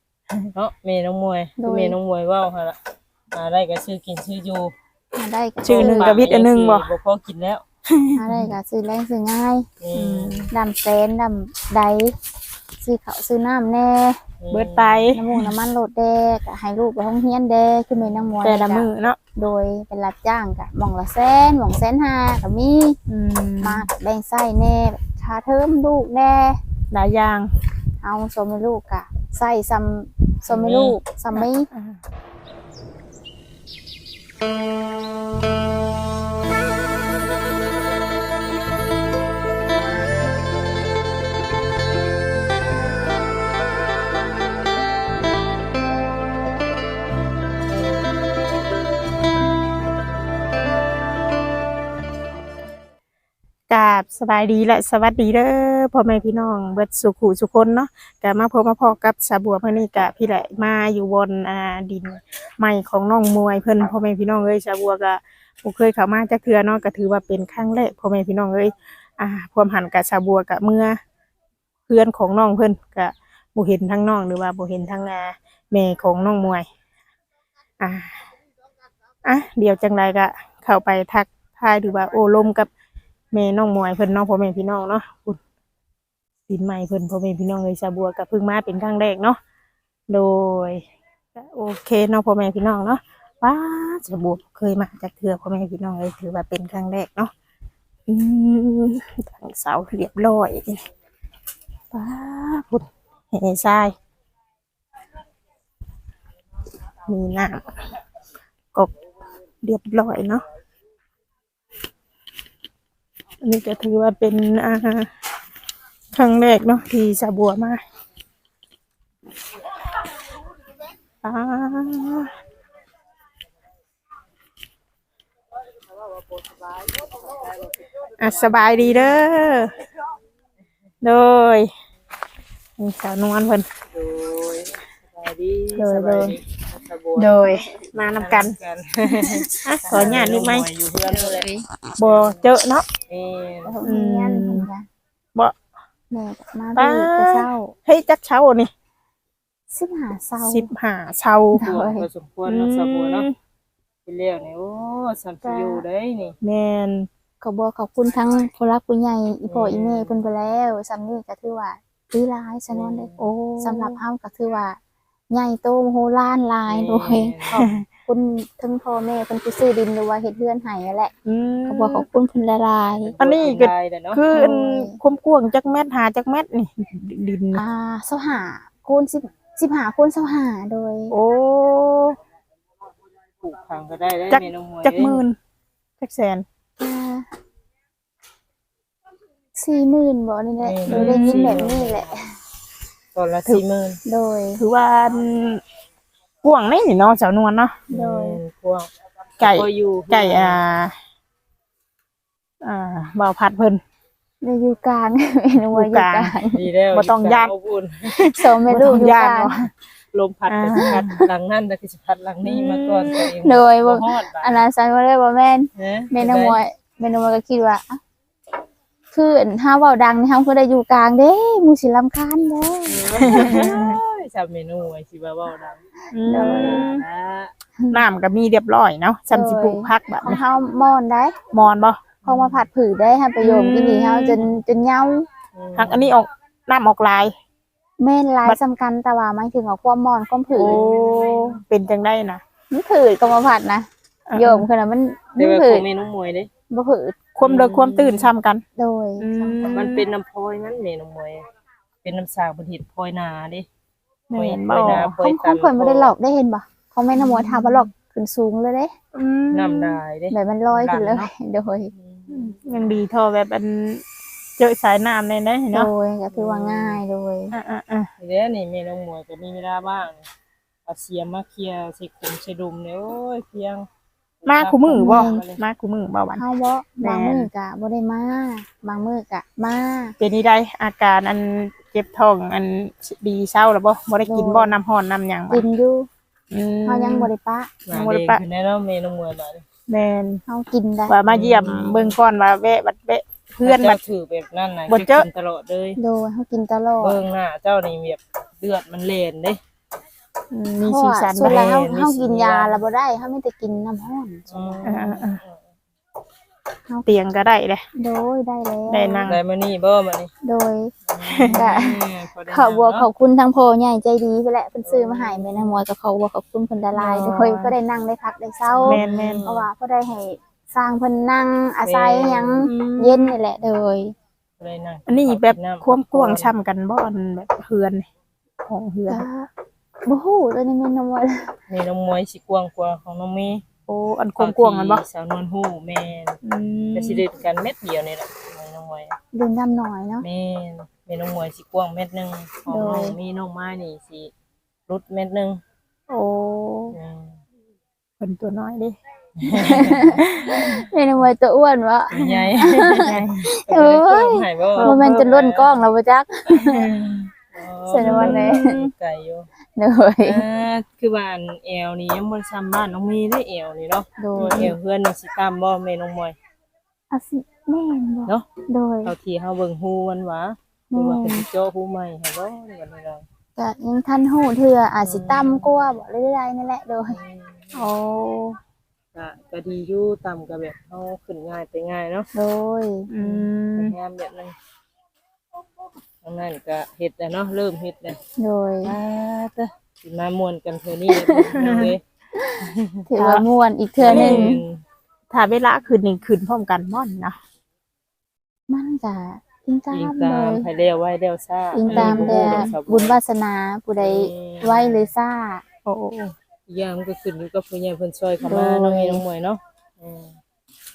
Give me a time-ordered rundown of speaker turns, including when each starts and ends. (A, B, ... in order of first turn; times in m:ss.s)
0:00.6-0:02.8 A
0:01.6-0:02.0 B
0:03.3-0:04.8 A
0:05.2-0:06.2 B
0:05.6-0:06.9 C
0:05.7-0:07.6 A
0:07.9-0:08.5 C
0:08.2-0:09.7 B
0:09.8-0:10.5 A
0:09.9-0:10.5 C
0:10.5-0:12.2 B
0:12.8-0:14.2 B
0:14.4-0:15.0 A
0:14.5-0:15.5 C
0:15.1-0:23.0 B
0:17.9-0:18.3 A
0:18.4-0:19.2 C
0:23.1-0:23.9 C
0:23.6-0:26.6 B
0:26.9-0:27.5 C
0:28.0-0:31.7 B
0:30.5-0:31.0 A
0:31.3-0:32.0 C
0:53.7-1:11.0 C
1:11.9-1:16.7 C
1:17.8-1:18.2 C
1:19.2-1:22.7 C
1:23.3-1:25.4 C
1:26.5-1:29.4 C
1:30.1-1:30.8 C
1:31.4-1:37.3 C
1:38.1-1:40.8 C
1:41.9-1:44.0 C
1:47.1-1:47.7 C
1:49.6-1:50.4 C
1:53.4-1:55.1 C
1:56.1-1:57.8 C
2:01.2-2:02.3 C
2:06.4-2:07.4 A
2:08.2-2:09.8 C
2:11.0-2:11.7 C
2:12.8-2:13.7 C
2:13.9-2:17.5 A
2:15.8-2:16.4 C
2:15.8-2:16.1 B
2:17.2-2:17.6 B
2:17.4-2:18.6 C
2:18.2-2:21.5 A
2:19.6-2:20.7 C
2:21.0-2:21.7 B
2:22.0-2:22.9 C
2:22.0-2:22.5 A
2:23.1-2:23.8 A
2:23.6-2:24.9 B
2:23.8-2:24.7 C
2:26.1-2:27.8 B
2:26.8-2:28.7 C
2:29.7-2:30.7 B
2:30.4-2:31.6 C
2:31.5-2:32.1 B
2:31.6-2:33.3 A
2:32.5-2:33.3 C
2:34.1-2:36.4 A
2:35.5-2:35.8 C
2:36.4-2:37.1 C
2:37.4-2:43.1 B
2:39.5-2:40.2 A
2:42.7-2:43.3 A
2:43.2-2:44.0 C
2:43.6-2:44.8 B
2:45.3-2:51.1 B
2:46.7-2:47.7 A
2:47.6-2:47.8 C
2:51.3-2:52.1 C
2:51.7-2:53.2 B
2:53.0-2:54.2 A
2:53.2-2:57.6 C
2:54.3-2:55.0 B
2:57.6-3:01.2 B
3:01.1-3:02.2 C
3:03.4-3:05.2 A
3:04.3-3:05.4 C
3:06.0-3:06.4 C
3:06.8-3:07.3 B
3:09.6-3:12.2 B
3:10.6-3:12.1 A
3:10.9-3:11.6 C
3:13.1-3:14.0 A
3:14.0-3:14.6 B
3:14.6-3:15.6 C
3:16.4-3:17.9 C
3:17.9-3:18.4 B
3:17.9-3:18.9 A
3:19.4-3:21.0 C
3:19.4-3:20.6 A
3:22.6-3:23.8 C
3:24.4-3:26.7 B
3:25.7-3:26.3 C
3:26.5-3:28.2 A
3:26.9-3:27.5 C
3:28.1-3:29.7 C
3:28.3-3:29.6 B
3:30.1-3:34.6 A
3:30.5-3:31.1 C
3:30.7-3:31.2 B
3:32.4-3:33.3 C
3:33.3-3:38.0 B
3:35.8-3:36.6 A
3:39.1-3:43.6 B
3:42.9-3:47.5 A
3:43.2-3:44.0 C
3:46.1-3:47.0 C
3:46.3-3:46.9 B
3:47.9-3:50.4 C
3:49.3-3:51.4 B
3:51.5-3:52.2 C
3:52.2-3:52.7 A
3:52.2-3:55.3 B
3:53.4-3:54.4 C
3:55.6-3:56.1 A
3:55.8-3:57.3 C
3:58.0-4:00.8 B
4:00.6-4:02.4 C
4:00.6-4:01.6 A
4:02.7-4:05.9 B
4:04.3-4:04.7 C
4:05.4-4:06.5 A
4:06.7-4:07.3 B
4:07.4-4:08.6 C
4:07.4-4:08.3 A
4:08.8-4:10.0 B
4:09.2-4:10.1 C
4:09.7-4:11.4 A
4:12.0-4:13.7 A
4:14.3-4:15.2 C
4:14.3-4:16.1 A
4:15.2-4:18.9 B
4:17.1-4:17.8 C
4:19.1-4:20.0 C
4:19.5-4:21.3 A
4:20.3-4:21.9 B
4:22.0-4:22.5 A
4:22.3-4:24.0 C
4:24.6-4:25.9 C
4:25.7-4:27.6 B
4:26.3-4:27.0 A
4:27.5-4:28.1 C
4:28.2-4:30.3 A
4:30.9-4:33.9 A
4:34.4-4:35.6 A
4:34.5-4:36.4 C
4:34.9-4:35.5 B
4:36.3-4:40.2 B
4:37.0-4:37.5 C
4:40.2-4:45.6 C
4:44.3-4:44.8 B
4:45.5-4:46.1 B
4:46.5-4:47.3 C
4:46.8-4:47.8 B
4:47.9-4:49.6 A
4:47.9-4:48.4 C
4:49.9-4:50.4 C
4:50.5-4:51.2 B
4:51.1-4:54.0 C
4:51.2-4:52.2 A
4:53.6-4:56.0 A
4:54.9-4:55.3 C
4:56.0-4:57.2 B
4:57.0-4:59.6 A
5:00.5-5:01.7 C
5:00.8-5:04.9 B
5:01.4-5:02.8 A
5:04.5-5:05.6 A
5:04.8-5:05.4 C
5:07.1-5:07.8 C
5:08.0-5:09.3 B
5:08.9-5:09.4 C
5:09.2-5:10.3 A
5:10.4-5:10.9 B
5:11.1-5:13.1 A
5:11.2-5:11.7 C
5:11.5-5:24.1 B
5:14.8-5:15.8 A
5:17.0-5:17.8 C
5:18.7-5:19.7 A
5:18.8-5:19.4 C
5:21.8-5:22.8 A
5:22.6-5:23.4 C
5:24.6-5:26.5 A
5:25.1-5:28.1 C
5:28.6-5:29.3 C
5:29.1-5:29.5 B
5:30.0-5:31.6 B
5:31.7-5:33.6 A
5:33.9-5:35.0 C
5:34.4-5:36.4 A
5:36.4-5:37.2 C
5:37.0-5:39.2 A
5:39.3-5:40.3 B
5:40.2-5:44.3 A
5:42.7-5:43.2 B
5:44.9-5:45.6 A
5:46.1-5:47.0 C
5:46.9-5:47.4 A
5:48.2-5:49.0 C
5:49.4-5:50.6 A
5:49.5-5:56.9 B
5:50.2-5:50.6 C
5:52.1-5:53.1 A
5:52.2-5:53.4 C
5:53.7-5:55.8 A
5:54.8-5:55.3 C
5:56.6-5:57.2 C
5:57.5-5:59.5 A
5:57.9-5:58.8 B
5:58.0-5:58.9 C
5:59.8-6:00.4 B
6:00.2-6:06.4 A
6:04.2-6:04.7 B
6:04.4-6:04.7 C
6:07.1-6:09.2 B
6:09.0-6:13.2 A
6:10.9-6:11.5 B
6:13.6-6:17.2 B
6:15.0-6:16.0 A
6:17.1-6:17.9 A
6:17.7-6:18.6 C
6:19.1-6:22.3 A
6:22.3-6:23.1 B
6:23.1-6:24.0 C
6:23.2-6:24.6 A
6:26.2-6:28.2 A
6:28.4-6:29.0 B
6:28.8-6:32.0 A
6:31.1-6:31.6 B
6:31.5-6:32.0 C
6:32.6-6:33.0 A
6:33.1-6:34.6 B
6:33.2-6:33.4 C
6:34.0-6:34.8 A
6:34.0-6:34.6 C
6:35.3-6:37.4 C
6:38.7-6:40.7 B
6:39.9-6:43.2 A
6:41.7-6:45.6 B
6:41.9-6:42.7 C
6:44.0-6:45.1 A
6:45.9-6:46.3 C
6:46.7-6:50.4 A
6:48.5-6:49.2 B